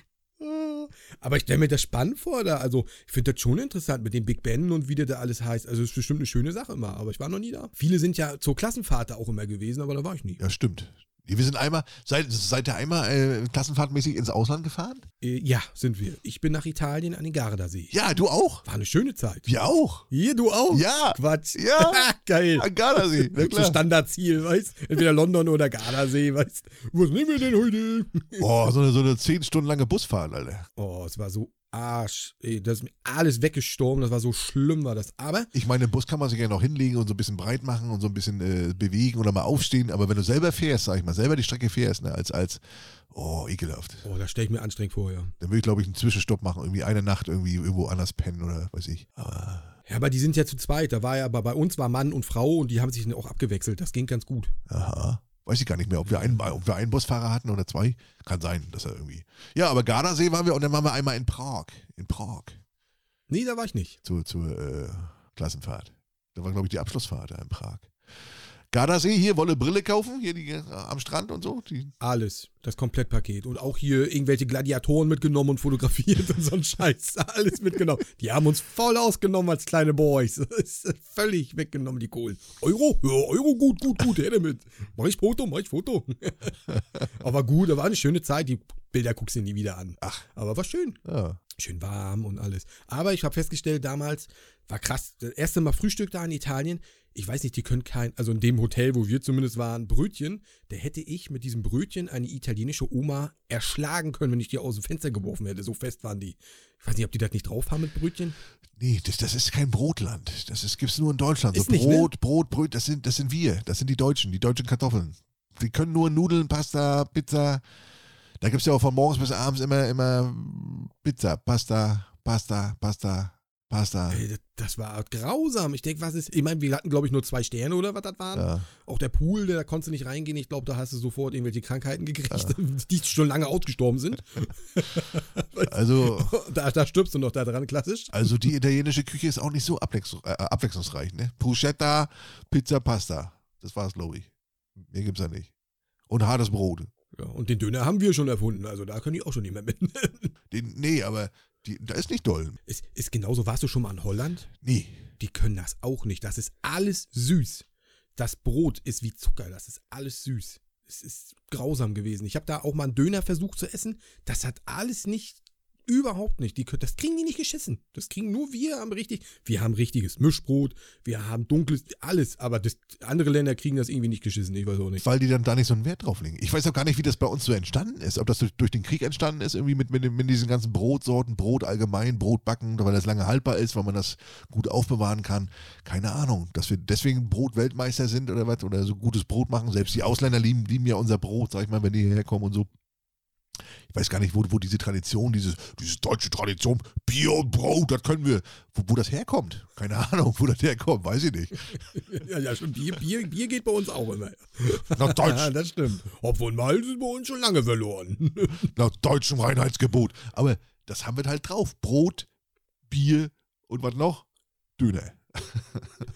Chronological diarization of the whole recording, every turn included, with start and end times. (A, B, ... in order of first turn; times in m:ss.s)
0:00.4-0:10.4 A
0:10.4-0:15.1 B
0:15.2-0:17.9 A
0:17.9-0:18.6 B
0:18.6-0:19.5 A
0:19.5-0:20.1 B
0:20.1-0:28.5 A
0:20.7-0:23.8 B
0:28.4-0:30.7 B
0:30.8-0:35.5 A
0:35.5-0:44.0 B
0:44.0-0:45.3 A
0:45.4-0:49.7 B
0:49.9-0:54.6 A
0:54.7-1:02.6 B
0:56.1-0:56.4 A
1:03.3-1:04.0 A
1:04.0-1:07.9 B
1:08.7-1:11.9 B
1:12.0-1:31.0 A
1:31.0-1:31.4 B
1:31.6-1:48.4 A
1:48.8-1:57.6 B
1:51.5-1:52.1 A
1:58.4-2:04.2 B
2:04.1-2:18.3 A
2:08.4-2:08.7 B
2:15.7-2:16.3 B
2:18.1-2:25.5 B
2:26.1-2:26.9 B
2:27.1-2:30.3 A
2:30.5-2:32.6 B
2:32.7-2:34.5 A
2:34.6-2:35.0 B
2:35.2-2:37.6 A
2:38.2-2:55.0 A
2:55.0-3:12.7 B
3:13.9-3:21.7 B
3:21.9-3:28.7 A
3:24.9-3:25.5 B
3:28.6-3:32.3 B
3:32.9-3:34.2 B
3:34.8-3:36.0 B